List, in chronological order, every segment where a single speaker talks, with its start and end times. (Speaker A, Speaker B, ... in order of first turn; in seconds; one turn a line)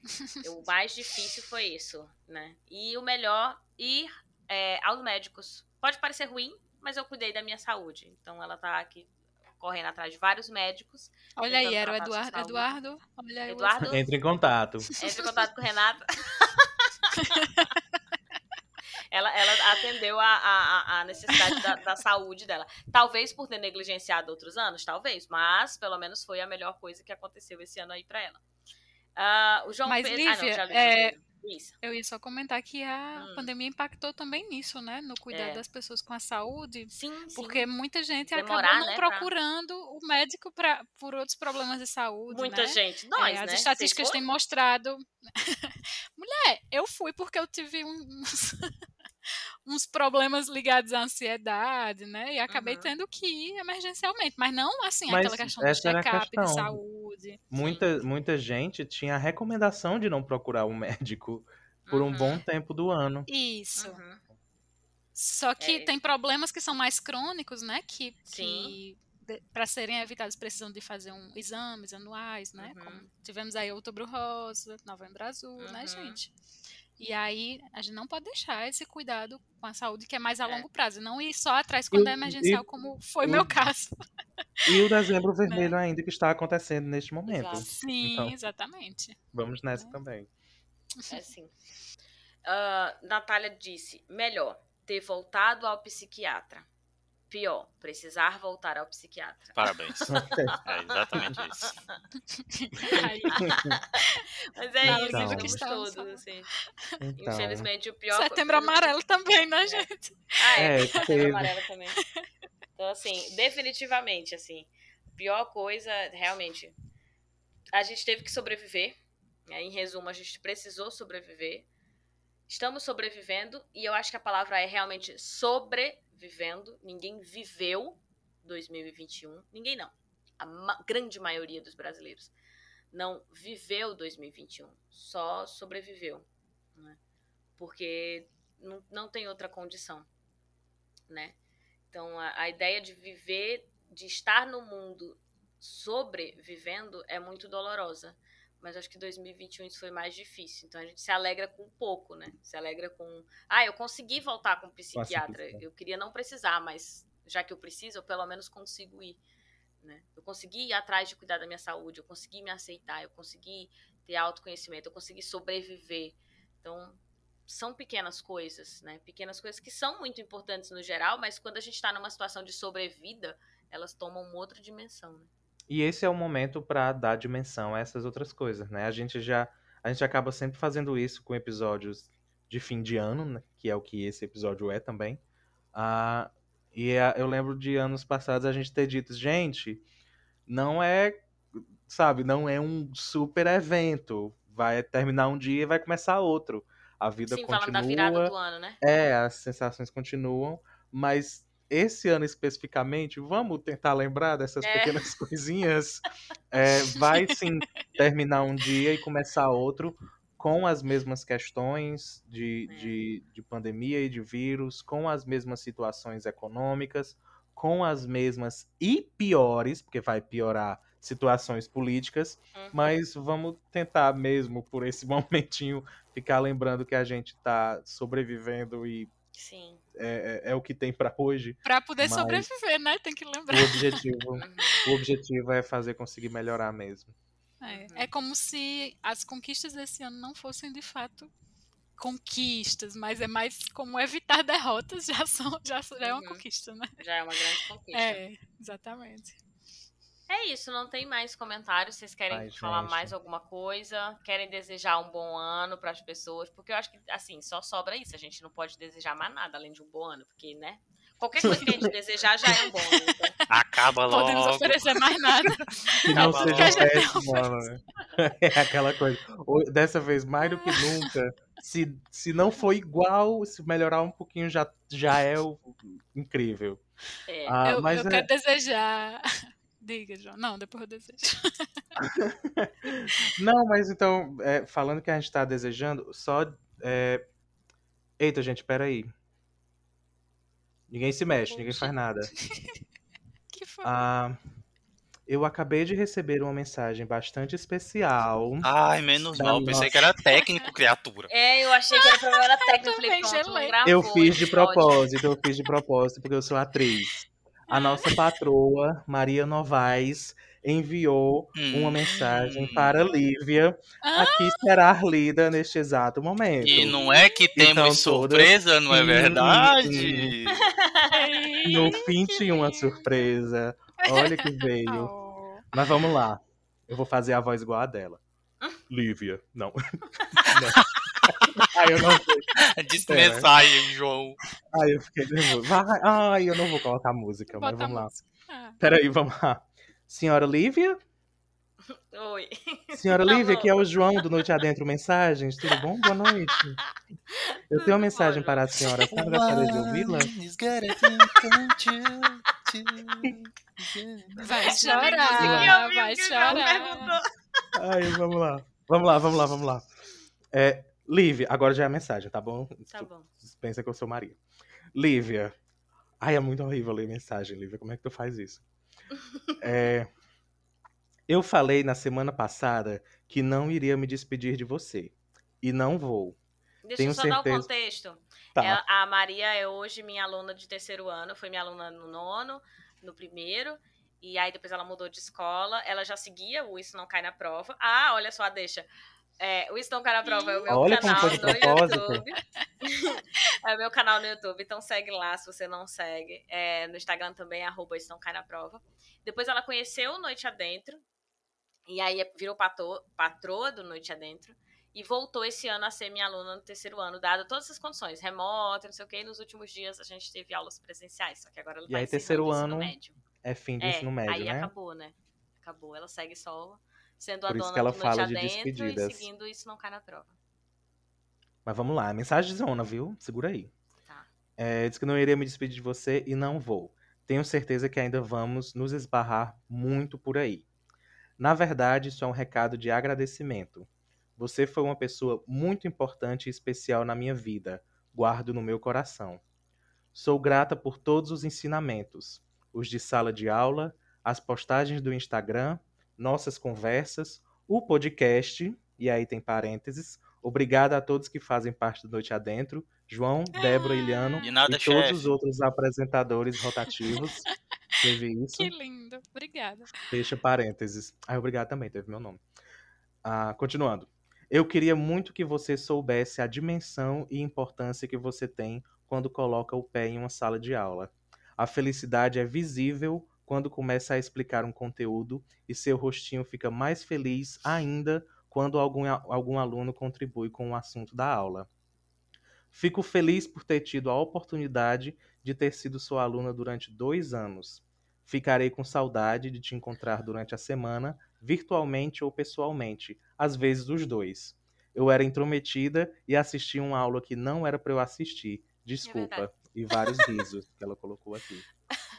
Speaker A: 0.4-12.8
Speaker B: 11.4-13.9
Speaker A: 13.5-14.0
Speaker C: 13.8-14.9
Speaker A: 15.0-17.6
Speaker B: 17.1-17.7
Speaker A: 19.1-28.4
Speaker B: 21.3-21.6
Speaker A: 29.1-31.8
Speaker B: 29.9-31.1
Speaker B: 31.8-48.7
Speaker A: 33.1-33.5
Speaker A: 35.3-35.6
Speaker A: 36.9-37.7
Speaker A: 38.3-39.3
Speaker A: 42.3-44.2
Speaker B: 49.6-57.4
Speaker A: 52.5-52.9
Speaker C: 55.1-56.8
Speaker C: 57.5-63.3
Speaker A: 57.6-57.9
Speaker A: 61.9-62.4
Speaker B: 63.3-64.0
Speaker A: 63.8-64.2
Speaker B: 65.1-76.3
Speaker A: 65.6-66.0
Speaker A: 68.3-68.8
Speaker A: 72.6-73.1
Speaker A: 75.6-76.2
Speaker B: 77.0-84.0
Speaker C: 81.9-82.6
Speaker C: 83.2-83.6
Speaker C: 84.7-88.3
Speaker B: 85.5-85.7
Speaker A: 87.3-87.8
Speaker B: 87.6-89.2
Speaker C: 89.3-90.3
Speaker A: 91.1-91.5
Speaker A: 92.4-96.7
Speaker A: 97.3-101.9
Speaker D: 99.5-101.8
Speaker C: 100.1-100.5
Speaker B: 102.3-103.5
Speaker C: 102.9-103.8
Speaker A: 103.0-104.0
Speaker A: 104.5-106.5
Speaker C: 104.8-105.6
Speaker B: 104.8-106.2
Speaker C: 107.0-107.7
Speaker A: 107.2-108.9
Speaker B: 108.1-111.0
Speaker A: 109.6-112.0
Speaker C: 110.5-111.5
Speaker A: 112.8-116.7
Speaker A: 117.7-118.9
Speaker A: 119.5-121.7
Speaker A: 122.5-132.3
Speaker A: 132.9-136.2
Speaker A: 137.6-140.1
Speaker A: 141.1-141.3
Speaker A: 141.9-159.2
Speaker C: 154.9-155.6
Speaker A: 159.8-175.3
Speaker C: 175.7-185.2
Speaker C: 185.7-189.8
Speaker C: 190.5-229.1
Speaker A: 197.3-198.8
Speaker A: 204.6-205.1
Speaker A: 212.7-212.9
Speaker A: 222.5-222.9
Speaker A: 229.3-229.8
Speaker C: 229.9-232.5
Speaker B: 231.6-234.0
Speaker C: 233.5-237.1
Speaker A: 234.4-234.8
Speaker B: 237.6-241.3
Speaker A: 237.7-238.1
Speaker B: 242.0-246.9
Speaker A: 246.0-246.4
Speaker A: 247.0-248.2
Speaker B: 247.9-249.4
Speaker A: 250.3-263.4
Speaker C: 252.3-253.1
Speaker C: 261.4-261.9
Speaker B: 262.5-263.4
Speaker D: 263.5-264.9
Speaker B: 264.1-267.7
Speaker D: 265.7-266.9
Speaker C: 266.0-276.8
Speaker A: 266.1-266.8
Speaker B: 270.4-271.1
Speaker A: 277.3-277.6
Speaker C: 277.4-278.3
Speaker B: 277.6-281.7
Speaker C: 282.0-287.2
Speaker C: 288.2-289.1
Speaker C: 290.9-292.3
Speaker B: 291.5-292.8
Speaker B: 293.5-293.9
Speaker C: 293.8-294.4
Speaker C: 295.3-298.7
Speaker D: 298.6-301.3
Speaker C: 299.4-300.0
Speaker A: 301.3-305.1
Speaker B: 301.9-303.7
Speaker C: 303.8-316.9
Speaker B: 307.7-308.1
Speaker D: 311.6-313.0
Speaker B: 314.0-314.6
Speaker D: 316.6-320.7
Speaker B: 316.7-317.4
Speaker C: 317.5-320.3
Speaker A: 320.5-321.2
Speaker B: 321.1-323.0
Speaker C: 321.6-325.1
Speaker B: 324.1-325.7
Speaker C: 325.7-328.2
Speaker C: 328.9-332.5
Speaker D: 330.4-331.6
Speaker D: 332.6-334.4
Speaker C: 333.1-333.5
Speaker C: 334.7-338.1
Speaker B: 337.5-338.8
Speaker C: 338.8-341.0
Speaker A: 341.9-344.4
Speaker C: 342.9-346.8
Speaker A: 347.3-349.0
Speaker C: 347.7-350.3
Speaker D: 349.1-354.4
Speaker B: 354.4-357.1
Speaker A: 354.7-357.2
Speaker C: 355.3-355.8
Speaker C: 357.7-359.8
Speaker C: 360.5-364.4
Speaker A: 362.9-363.3
Speaker C: 364.9-365.6
Speaker C: 366.2-368.6
Speaker A: 369.5-369.8
Speaker C: 369.6-370.1
Speaker C: 371.3-376.4
Speaker A: 376.8-388.9
Speaker C: 377.0-377.7
Speaker C: 378.6-378.8
Speaker A: 389.4-401.0
Speaker B: 390.2-391.6
Speaker C: 390.7-392.2
Speaker A: 401.9-413.2
Speaker C: 411.9-414.7
Speaker A: 413.8-420.4
Speaker C: 417.5-419.3
Speaker C: 421.6-423.7
Speaker C: 424.6-430.6
Speaker C: 431.4-439.4
Speaker C: 440.1-457.5
Speaker B: 453.6-454.5
Speaker D: 454.4-455.3
Speaker C: 458.0-458.7
Speaker B: 458.6-459.9
Speaker C: 460.1-462.4
Speaker C: 463.2-481.7
Speaker C: 482.7-501.6
Speaker A: 499.0-500.3